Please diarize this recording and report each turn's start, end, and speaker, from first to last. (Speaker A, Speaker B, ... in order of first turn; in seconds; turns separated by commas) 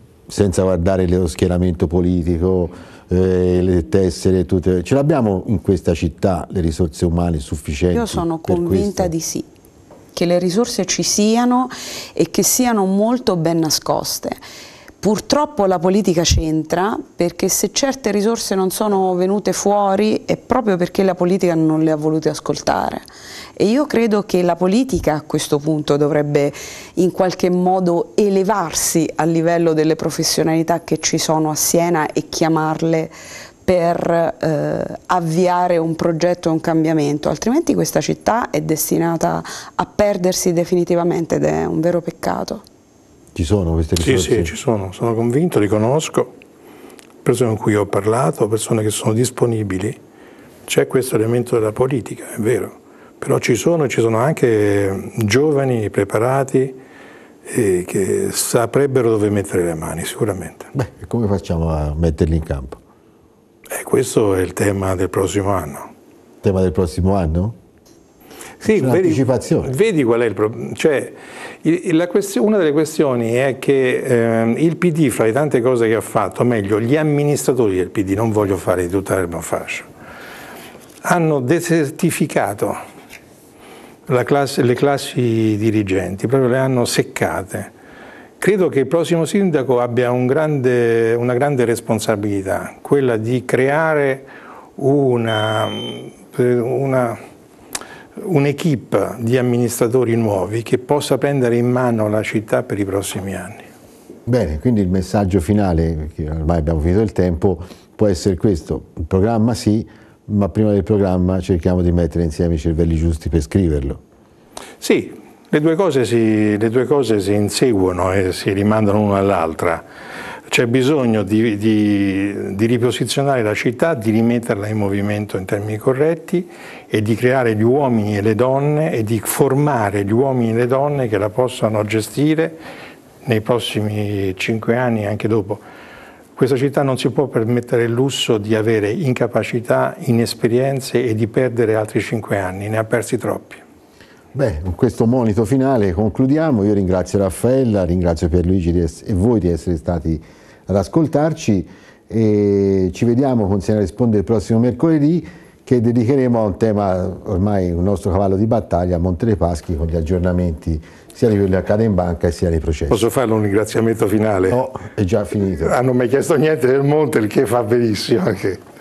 Speaker A: 0.3-9.1, Speaker B: 7.9-9.5, Speaker B: 10.1-14.4, Speaker B: 15.0-23.1, Speaker B: 23.6-33.1, Speaker B: 33.6-42.6, Speaker A: 43.3-44.5, Speaker C: 44.0-46.3, Speaker C: 47.2-50.0, Speaker C: 50.7-56.8, Speaker C: 57.5-60.7, Speaker A: 60.8-62.8, Speaker C: 63.7-65.9, Speaker A: 66.4-67.5, Speaker C: 68.6-79.9, Speaker A: 68.7-69.8, Speaker C: 81.0-82.8, Speaker C: 84.1-87.7, Speaker C: 88.4-97.2, Speaker C: 98.2-103.7, Speaker A: 104.3-114.0, Speaker C: 114.8-119.8, Speaker C: 120.5-132.6, Speaker C: 133.2-135.6, Speaker C: 136.4-143.6, Speaker A: 144.3-163.1, Speaker C: 162.9-164.6, Speaker A: 164.5-165.8, Speaker C: 165.6-168.6